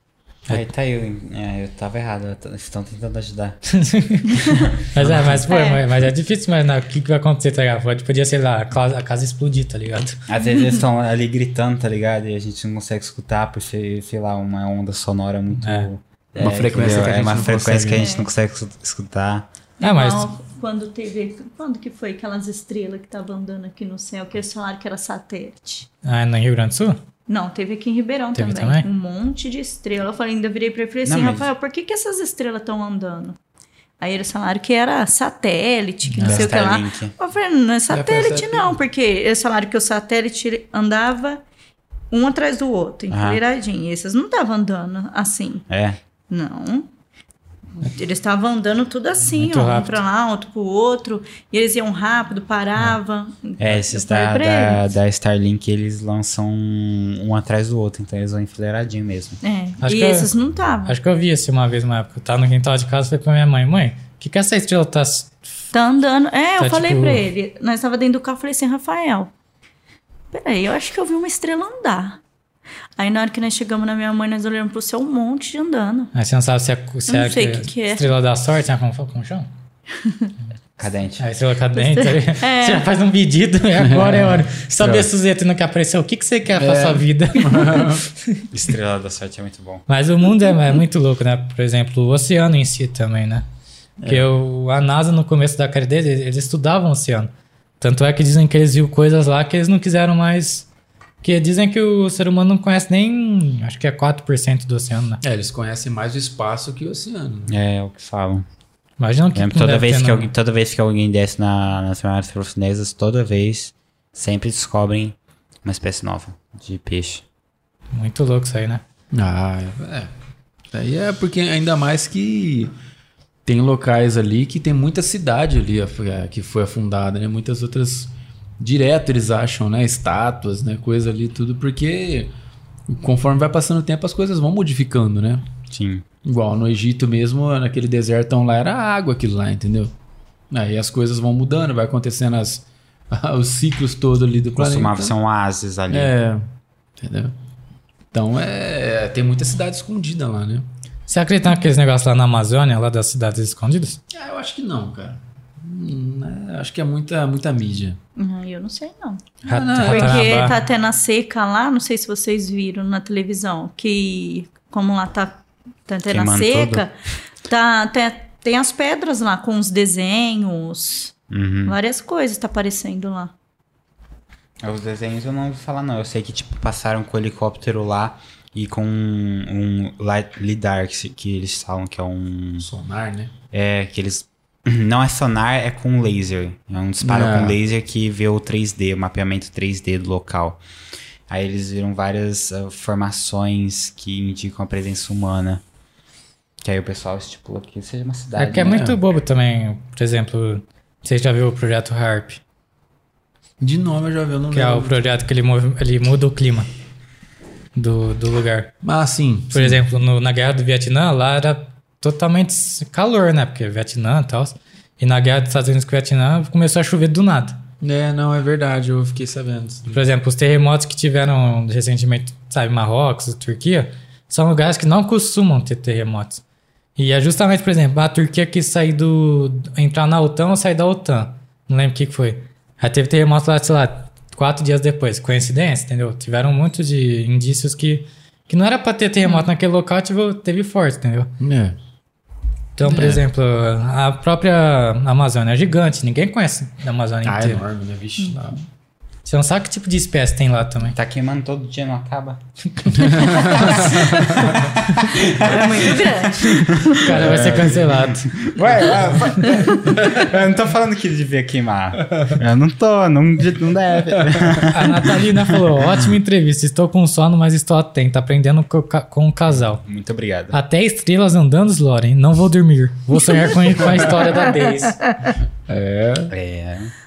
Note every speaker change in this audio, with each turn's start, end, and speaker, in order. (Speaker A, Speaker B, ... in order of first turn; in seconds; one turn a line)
Speaker A: 0.5-3.6
Speaker B: 3.7-10.2
Speaker C: 4.3-4.7
Speaker A: 4.8-5.4
Speaker C: 5.5-5.8
Speaker A: 10.3-19.5
Speaker B: 15.6-15.9
Speaker D: 16.4-18.1
Speaker C: 17.9-18.3
Speaker C: 19.8-25.9
Speaker B: 19.8-20.3
Speaker B: 26.0-27.0
Speaker C: 27.3-33.4
Speaker B: 28.4-28.9
Speaker A: 31.1-31.5
Speaker C: 34.0-41.4
Speaker A: 36.2-37.1
Speaker D: 36.2-36.5
Speaker D: 37.9-38.8
Speaker C: 42.1-45.7
Speaker A: 43.1-43.4
Speaker A: 45.7-46.0
Speaker C: 46.3-46.9
Speaker C: 47.8-54.8
Speaker B: 49.4-50.0
Speaker A: 53.6-59.4
Speaker C: 59.4-61.0
Speaker B: 59.8-60.3
Speaker B: 60.9-65.4
Speaker C: 65.7-69.3
Speaker B: 66.6-67.2
Speaker C: 70.3-72.2
Speaker C: 73.0-76.1
Speaker B: 76.1-79.5
Speaker C: 77.1-78.1
Speaker C: 79.9-80.3
Speaker A: 80.8-81.3
Speaker B: 81.2-88.4
Speaker C: 81.7-82.9
Speaker D: 83.8-85.1
Speaker D: 86.5-88.1
Speaker A: 88.5-89.8
Speaker B: 89.9-93.5
Speaker D: 94.0-94.3
Speaker B: 94.1-100.7
Speaker B: 101.2-105.2
Speaker D: 105.2-107.5
Speaker A: 107.5-108.5
Speaker B: 109.0-110.3
Speaker A: 109.3-117.2
Speaker B: 117.9-118.8
Speaker D: 119.1-120.1
Speaker D: 120.7-122.7
Speaker D: 123.5-132.3
Speaker D: 132.9-135.4
Speaker A: 135.7-136.1
Speaker D: 136.2-139.9
Speaker D: 140.5-145.1
Speaker A: 144.6-146.1
Speaker D: 145.9-146.4
Speaker D: 147.0-147.3
Speaker D: 148.1-150.7
Speaker B: 151.1-154.0
Speaker D: 154.1-158.0
Speaker C: 158.2-166.9
Speaker B: 159.4-160.6
Speaker D: 159.5-160.4
Speaker A: 166.1-166.9
Speaker C: 167.5-173.3
Speaker A: 171.3-171.8
Speaker A: 174.6-182.7
Speaker D: 182.6-183.3
Speaker A: 183.5-190.6
Speaker D: 187.0-187.6
Speaker A: 191.3-195.6
Speaker A: 196.6-198.8
Speaker B: 198.4-202.4
Speaker D: 198.6-199.0
Speaker D: 203.6-205.0
Speaker B: 204.5-206.7
Speaker B: 207.8-208.7
Speaker D: 208.8-209.8
Speaker B: 209.5-217.6
Speaker D: 217.8-220.0
Speaker B: 219.9-226.4
Speaker B: 227.0-241.3
Speaker D: 241.4-241.8
Speaker B: 242.8-247.6
Speaker D: 242.8-243.2
Speaker D: 247.2-248.6
Speaker B: 249.2-251.0
Speaker A: 250.9-252.4
Speaker D: 252.9-254.7
Speaker A: 253.0-265.2
Speaker C: 253.4-254.2
Speaker C: 255.3-257.1
Speaker B: 256.9-258.3
Speaker D: 257.1-257.9
Speaker D: 258.9-260.2
Speaker D: 264.2-264.7
Speaker B: 264.7-269.8
Speaker A: 269.6-270.6
Speaker B: 270.5-275.0
Speaker D: 275.7-276.3
Speaker A: 276.3-276.9